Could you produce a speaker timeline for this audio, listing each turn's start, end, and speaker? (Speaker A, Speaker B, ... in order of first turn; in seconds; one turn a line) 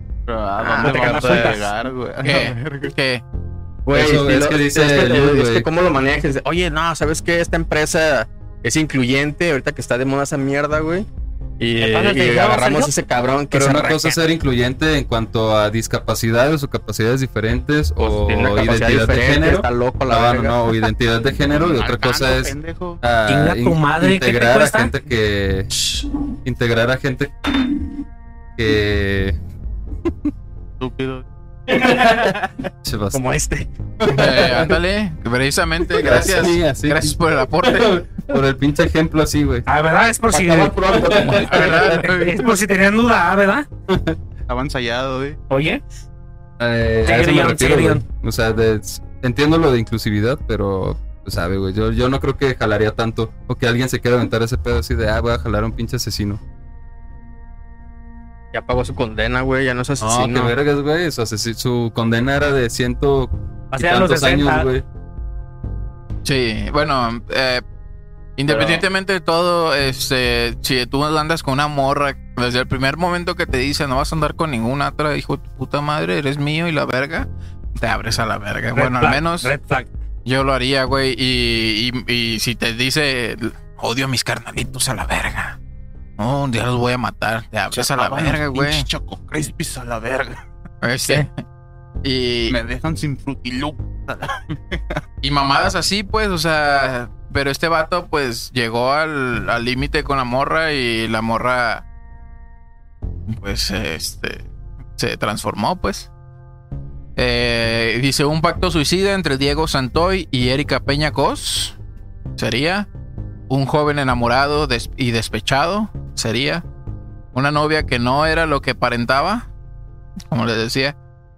Speaker A: 0.3-2.9
Speaker B: 0.6-1.6
Speaker C: 0.8-1.6
Speaker D: 2.2-3.2
Speaker B: 3.8-11.1
Speaker E: 3.9-5.7
Speaker B: 11.6-14.2
Speaker C: 11.8-12.9
Speaker E: 13.5-27.9
Speaker B: 18.0-20.8
Speaker A: 21.5-23.0
Speaker C: 23.3-24.9
Speaker E: 28.6-29.4
Speaker A: 30.8-31.2
Speaker E: 31.7-33.2
Speaker B: 33.1-33.7
Speaker E: 34.0-34.8
Speaker D: 34.0-38.0
Speaker E: 35.9-39.7
Speaker C: 39.7-40.9
Speaker B: 40.3-42.0
Speaker E: 40.9-41.7
Speaker D: 41.5-42.2
Speaker A: 41.5-42.4
Speaker C: 41.6-43.7
Speaker E: 43.9-44.2
Speaker A: 44.5-45.4
Speaker C: 45.5-45.8
Speaker E: 46.6-56.4
Speaker C: 47.0-48.0
Speaker B: 58.5-60.5
Speaker E: 60.0-64.8
Speaker C: 63.7-64.7
Speaker D: 66.2-67.6
Speaker D: 68.4-79.5
Speaker A: 68.5-68.8
Speaker C: 78.7-79.9
Speaker D: 80.2-85.6
Speaker D: 86.2-88.9
Speaker A: 87.7-90.4
Speaker D: 90.8-91.4
Speaker D: 92.0-92.6
Speaker A: 92.5-95.0
Speaker D: 95.2-101.8
Speaker D: 103.3-104.5
Speaker D: 105.0-106.1
Speaker D: 107.2-111.8
Speaker D: 112.4-112.9
Speaker D: 113.5-116.6
Speaker D: 117.3-119.5
Speaker D: 120.3-121.0